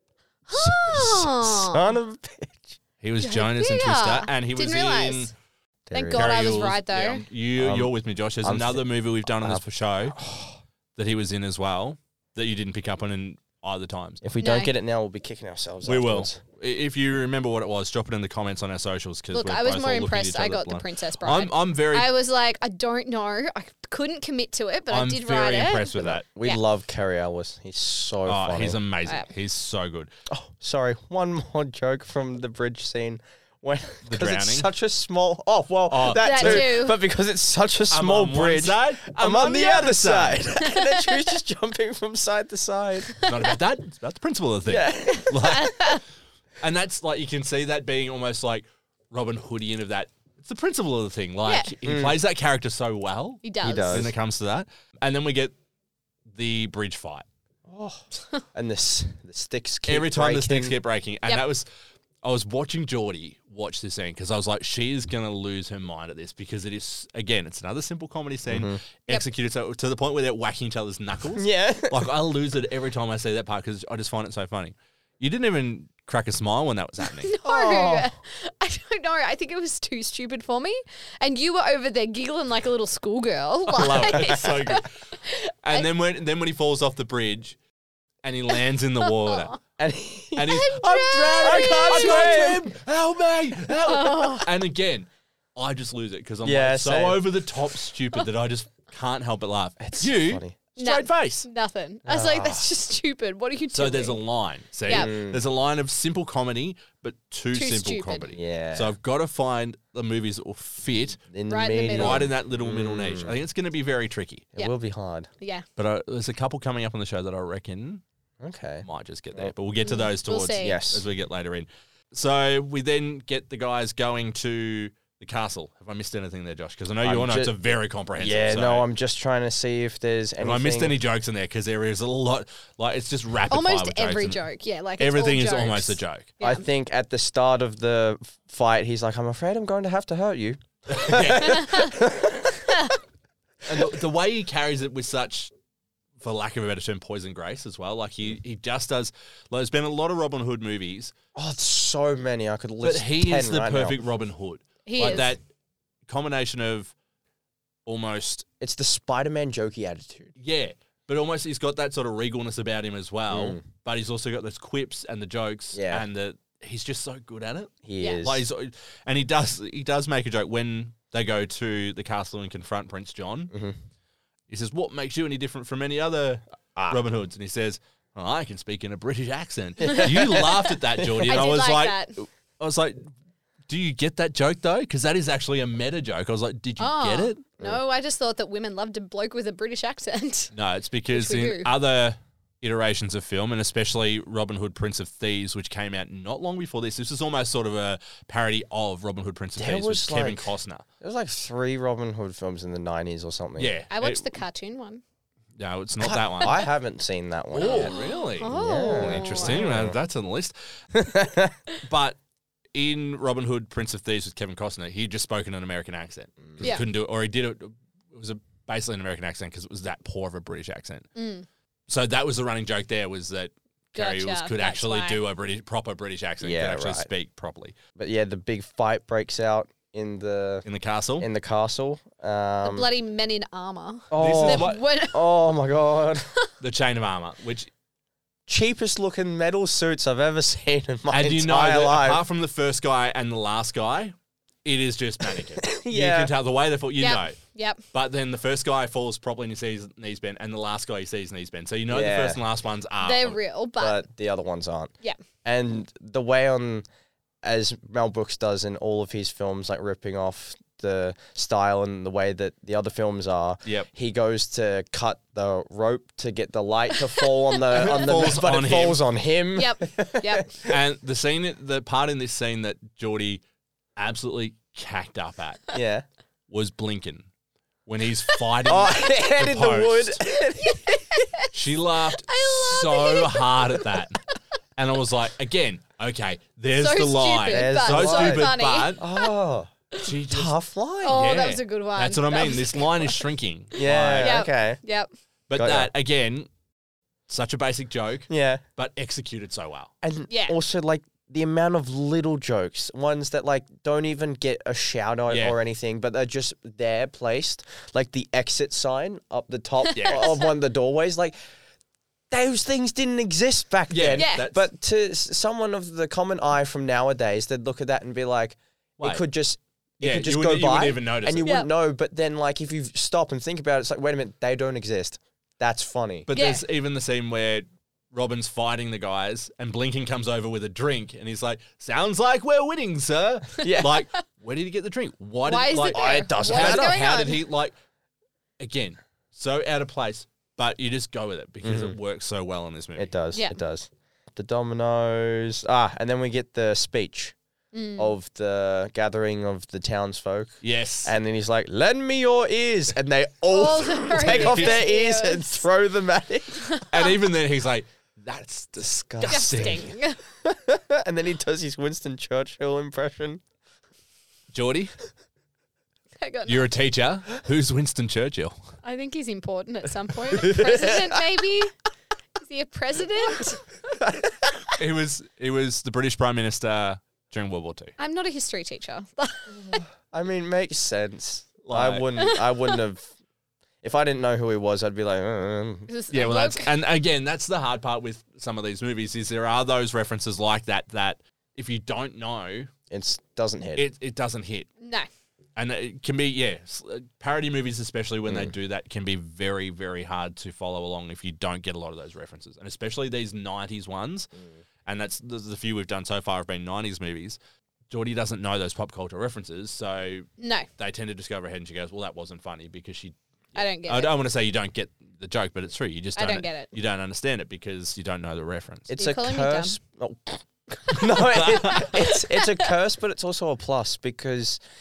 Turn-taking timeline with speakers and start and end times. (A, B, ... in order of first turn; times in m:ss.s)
0:00.5-0:01.9 A
0:00.5-0:02.8 B
0:03.0-0:05.3 C
0:03.2-0:05.3 A
0:05.9-0:06.2 B
0:05.9-0:07.2 A
0:06.1-0:10.2 C
0:07.6-0:10.6 B
0:11.0-0:14.2 C
0:14.2-0:16.4 B
0:14.4-0:14.7 A
0:15.8-0:22.1 C
0:19.3-0:26.6 A
0:24.9-0:26.2 C
0:25.9-0:28.8 B
0:28.3-0:30.1 C
0:30.3-0:43.1 B
0:34.0-0:34.7 C
0:35.9-0:36.8 C
0:36.2-0:37.0 A
0:37.9-0:40.4 C
0:40.6-0:41.2 A
0:43.2-0:46.0 C
0:44.6-0:45.7 B
0:45.3-0:46.0 A
0:46.6-0:55.5 C
0:51.8-0:52.2 B
0:53.4-0:54.1 A
0:53.6-0:54.1 B
0:56.3-0:57.2 C
0:57.7-1:00.8 B
0:59.9-1:01.7 C
1:02.2-1:17.3 C
1:08.5-1:08.8 B
1:11.3-1:12.0 B
1:17.2-1:25.9 A
1:17.4-1:18.1 B
1:23.7-1:24.9 C
1:23.9-1:24.4 B
1:25.6-1:27.6 C
1:28.2-1:29.6 C
1:29.0-1:29.5 A
1:29.8-1:30.7 B
1:30.4-1:41.5 C
1:30.5-1:32.6 A
1:31.3-1:32.7 B
1:33.8-1:34.5 A
1:36.4-1:37.2 B
1:39.8-1:40.6 B
1:40.8-1:44.2 A
1:42.0-1:42.6 B
1:43.7-1:51.2 C
1:44.9-1:45.1 A
1:44.9-1:45.4 B
1:47.5-1:48.3 A
1:48.3-1:48.9 B
1:51.2-1:53.3 B
1:51.5-1:52.3 A
1:51.9-1:54.5 C
1:54.6-1:55.3 B
1:55.4-1:55.6 A
1:55.8-1:58.0 C
1:58.4-1:59.5 B
1:58.8-2:08.9 C
1:59.8-2:00.8 A
2:00.6-2:01.0 B
2:07.0-2:07.6 B
2:08.2-2:10.9 B
2:10.4-2:14.4 C
2:13.5-2:16.6 A
2:15.0-2:16.3 C
2:16.4-2:22.7 B
2:20.9-2:21.8 C
2:21.4-2:21.9 A
2:23.6-2:25.5 C
2:26.2-2:31.1 C
2:31.3-2:34.0 B
2:32.8-2:35.4 C
2:34.8-2:35.3 A
2:36.1-2:36.9 C
2:37.8-2:38.4 C
2:38.6-2:40.3 B
2:40.4-2:53.5 C
2:43.3-2:43.6 B
2:45.7-2:46.0 B
2:47.8-2:48.4 B
2:54.5-3:03.1 C
2:59.8-3:01.4 B
2:59.8-3:00.5 A
3:01.2-3:02.2 A
3:03.7-3:07.4 C
3:06.8-3:10.5 A
3:10.5-3:20.8 C
3:11.1-3:11.7 A
3:19.6-3:23.7 B
3:23.6-3:24.4 C
3:23.9-3:25.0 A
3:25.6-3:26.6 C
3:26.0-3:28.0 B
3:27.5-3:30.5 C
3:27.6-3:29.6 A
3:28.5-3:30.0 B
3:30.9-3:31.6 B
3:31.8-3:32.2 C
3:32.7-3:41.1 C
3:36.4-3:36.7 B
3:41.2-3:41.4 A
3:41.9-3:47.8 C
3:44.0-3:45.2 A
3:46.4-3:47.1 B
3:48.0-3:50.6 B
3:50.6-3:51.3 C
3:51.2-3:52.9 B
3:52.6-3:55.3 A
3:54.1-3:56.3 B
3:54.1-3:54.8 C
3:56.6-3:57.7 C
3:58.5-4:02.2 B
4:01.1-4:07.4 C
4:05.6-4:06.3 B
4:07.0-4:07.8 A
4:07.9-4:13.4 C
4:11.9-4:12.4 B
4:13.0-4:14.0 A
4:13.8-4:14.9 B
4:15.4-4:16.8 B
4:17.4-4:30.7 B
4:27.7-4:29.0 C
4:29.6-4:30.5 A
4:30.6-4:33.4 C
4:34.0-4:35.6 C
4:35.7-4:36.0 B
4:36.5-4:37.3 C
4:37.8-4:40.2 C
4:38.6-4:41.2 B
4:40.6-4:41.5 A
4:41.5-4:44.2 C
4:42.2-4:43.8 A
4:44.8-4:49.0 C
4:46.8-4:49.3 A
4:47.5-4:49.7 B
4:50.0-4:50.5 C
4:50.3-4:51.3 B
4:51.0-4:53.2 A
4:51.0-4:54.4 C
4:53.8-4:54.8 B
4:53.8-4:55.1 A
4:55.5-4:56.5 C
4:55.6-4:55.9 B
4:57.3-4:59.9 C
4:58.3-4:58.6 B
5:00.0-5:11.3 B
5:00.3-5:00.6 A
5:05.3-5:05.6 C
5:09.9-5:10.4 A
5:09.9-5:10.3 C
5:12.3-5:26.3 B
5:13.9-5:14.6 C
5:14.1-5:14.4 A
5:19.0-5:19.2 C
5:20.0-5:21.5 C
5:26.2-5:37.7 C
5:26.3-5:26.6 A
5:33.6-5:33.9 B
5:35.4-5:37.4 A
5:35.9-5:37.0 B
5:38.6-5:43.1 C
5:41.6-5:42.0 B
5:43.0-5:47.3 B
5:47.7-5:48.1 A
5:48.0-5:56.8 B
5:50.6-5:51.1 C
5:53.5-5:55.6 A
5:54.2-5:54.8 C
5:56.6-5:57.1 A
5:56.9-5:59.9 C
5:58.8-5:59.9 B
5:59.2-6:00.2 A
6:00.4-6:03.4 B
6:04.5-6:04.9 C
6:06.2-6:06.7 A
6:06.5-6:08.5 C
6:08.8-6:11.7 A
6:10.3-6:11.2 B
6:12.4-6:13.7 A
6:14.0-6:14.5 B
6:14.8-6:17.9 C
6:18.0-6:19.8 A
6:19.7-6:23.1 B
6:21.6-6:22.1 C
6:22.2-6:22.8 A
6:23.8-6:25.9 B
6:25.9-6:26.7 A
6:26.1-6:32.7 C
6:32.9-6:33.8 B
6:33.8-6:34.7 C
6:34.8-6:35.1 A
6:35.6-6:44.3 C
6:38.3-6:38.5 B
6:44.8-6:47.4 C
6:47.9-6:58.9 C
6:50.4-6:50.7 A
6:53.5-6:54.1 A
6:56.2-6:56.7 A
6:58.9-7:04.6 B
6:58.9-6:59.8 A
7:01.1-7:02.0 C
7:01.8-7:02.6 A